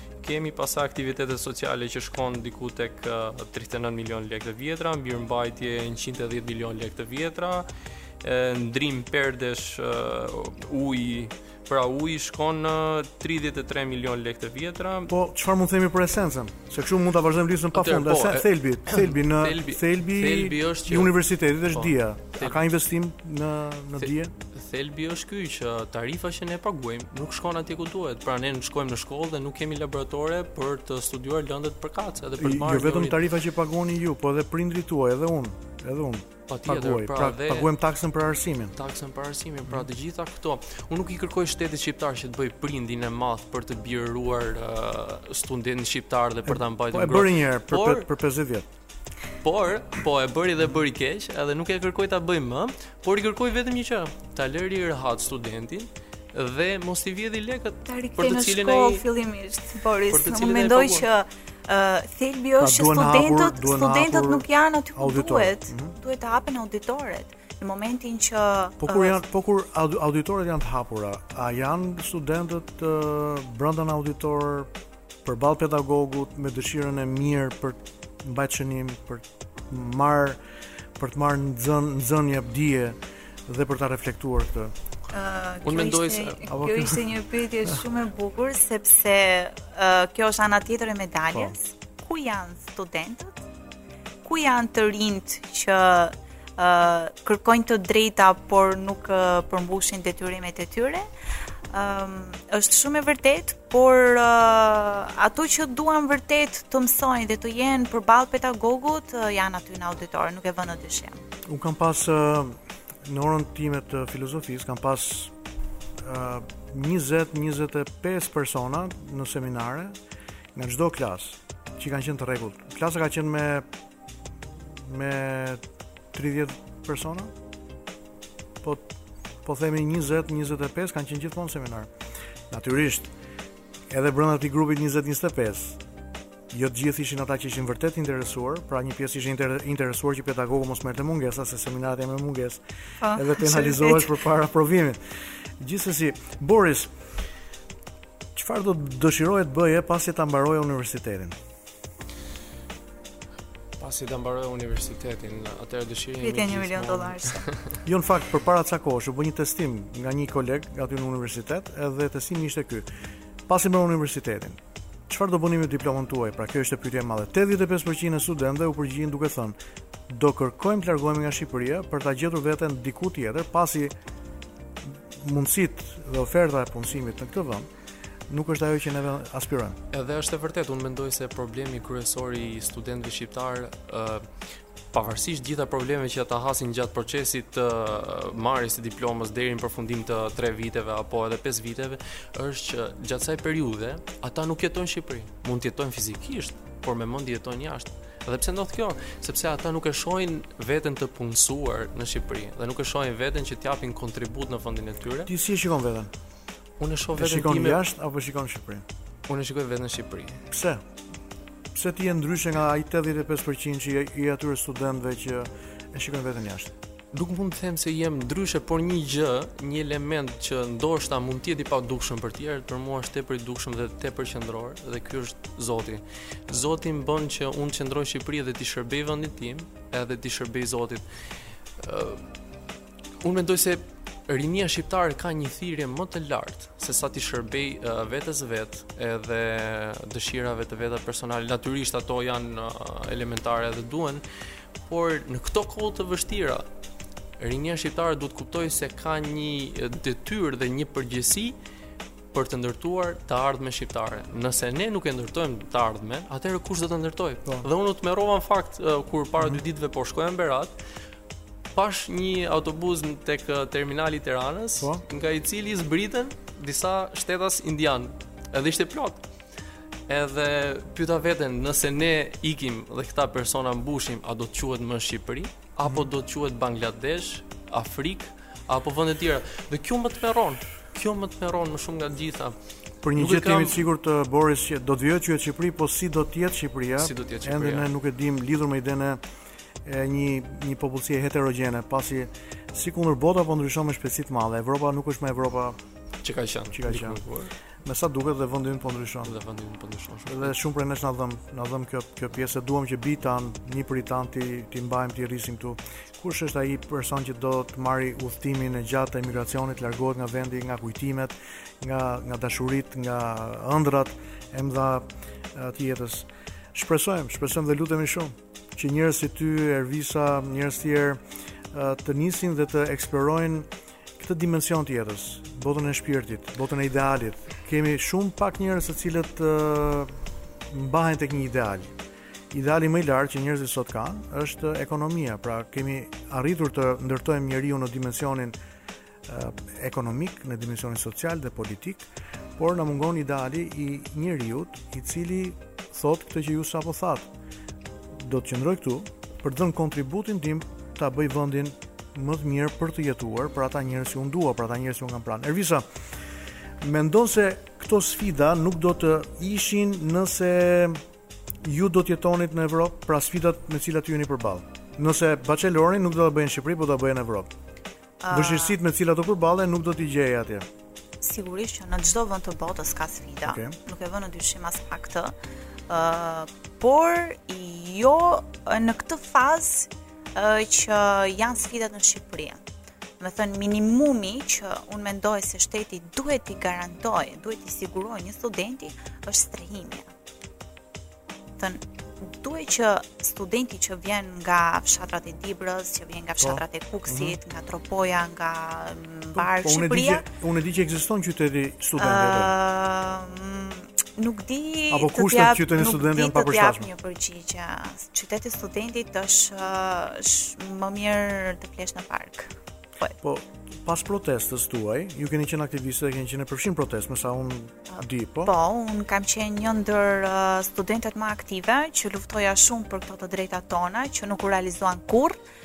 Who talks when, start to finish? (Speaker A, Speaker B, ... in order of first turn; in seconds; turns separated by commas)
Speaker A: 0.2-7.7, Speaker A: 8.2-15.1, Speaker B: 15.1-24.3, Speaker A: 17.7-22.6, Speaker A: 24.0-33.2, Speaker B: 32.4-38.8, Speaker A: 36.5-37.7, Speaker A: 38.8-48.1, Speaker B: 46.5-48.7, Speaker A: 49.4-59.0, Speaker C: 57.9-69.2, Speaker A: 60.1-61.1, Speaker B: 62.6-66.0, Speaker B: 68.8-74.7, Speaker B: 75.2-80.4, Speaker B: 81.0-84.7, Speaker C: 85.1-93.4, Speaker A: 85.6-86.4, Speaker B: 86.5-87.1, Speaker C: 94.2-101.1, Speaker C: 101.7-111.2, Speaker B: 111.5-115.3, Speaker B: 116.0-120.0, Speaker B: 120.5-123.7, Speaker B: 124.8-127.3, Speaker B: 128.6-128.9, Speaker B: 129.4-131.9, Speaker B: 132.5-133.1, Speaker B: 133.9-135.8, Speaker B: 136.5-142.6, Speaker C: 143.0-144.1, Speaker B: 143.1-145.0, Speaker B: 145.6-146.9, Speaker B: 148.3-151.4, Speaker A: 153.8-157.8, Speaker C: 156.2-157.5, Speaker B: 157.8-162.9, Speaker B: 163.5-169.6, Speaker B: 170.1-173.9, Speaker B: 175.2-177.7, Speaker B: 178.3-179.8, Speaker A: 179.9-205.3, Speaker B: 205.3-206.1, Speaker A: 206.8-207.8, Speaker B: 207.2-208.8, Speaker A: 209.3-210.5, Speaker B: 210.5-210.8, Speaker B: 211.7-216.7, Speaker A: 217.1-232.3, Speaker A: 233.2-244.2, Speaker A: 244.9-246.7, Speaker A: 247.4-251.6, Speaker A: 252.3-260.8, Speaker A: 261.7-269.2, Speaker A: 270.1-283.8, Speaker B: 283.0-289.2, Speaker A: 287.0-287.9, Speaker B: 289.8-295.8, Speaker A: 296.2-297.5, Speaker B: 296.7-297.2, Speaker B: 297.8-299.3, Speaker A: 299.3-300.6, Speaker B: 300.3-321.2, Speaker B: 321.7-331.9, Speaker B: 332.5-338.6, Speaker B: 339.3-347.3, Speaker B: 348.1-355.9, Speaker B: 356.8-361.0, Speaker B: 361.6-367.5, Speaker C: 368.2-368.8, Speaker B: 368.3-370.7, Speaker C: 371.2-375.4, Speaker B: 373.5-373.8, Speaker C: 375.9-382.6, Speaker C: 383.2-390.1, Speaker C: 391.6-400.3, Speaker B: 396.4-397.4, Speaker B: 399.4-402.5, Speaker C: 402.0-413.2, Speaker B: 404.9-406.9, Speaker B: 413.2-418.5, Speaker C: 417.9-425.4